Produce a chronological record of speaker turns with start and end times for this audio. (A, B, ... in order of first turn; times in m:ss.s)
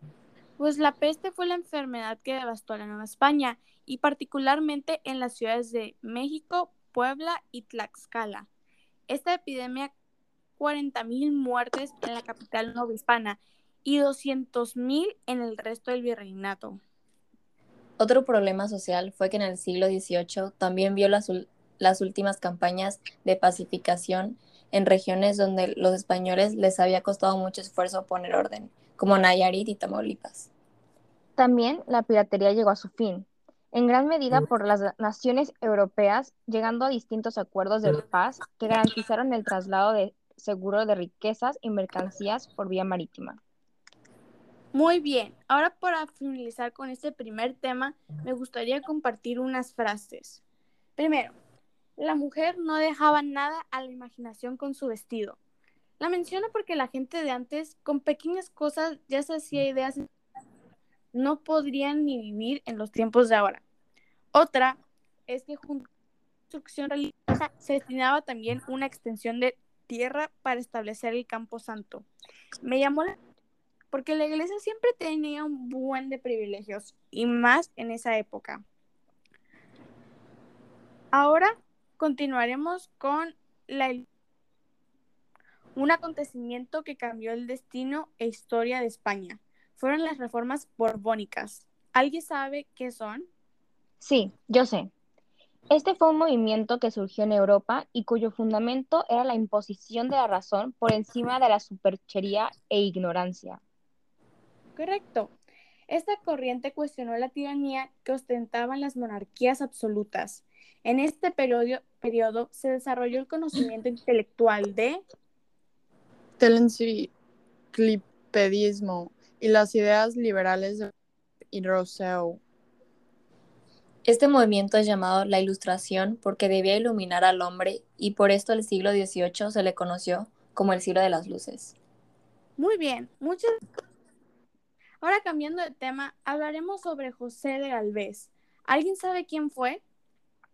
0:00.6-0:08.5 A
0:09.1-0:09.9 A
0:10.6-0:16.8 A
0:18.0-0:30.5 B
0:31.4-0:43.4 C
0:44.7-0:50.4 A
0:51.0-0:51.4 A
0:52.0-0:55.4 A
0:56.0-1:00.1 A
1:01.1-1:03.6 A
1:04.3-1:05.9 A
1:06.5-1:12.1 A
1:12.6-1:13.2 A
1:13.9-1:18.6 A
1:21.1-1:24.1 A
1:25.8-1:33.3 A
1:34.0-1:34.9 C
1:35.7-1:43.6 C
1:44.8-1:45.3 A
1:45.9-1:55.0 A
1:56.4-1:57.1 D
1:57.7-2:00.9 D
2:01.5-2:02.4 D
2:04.1-2:11.8 B
2:12.6-2:13.6 A
2:15.0-2:19.8 A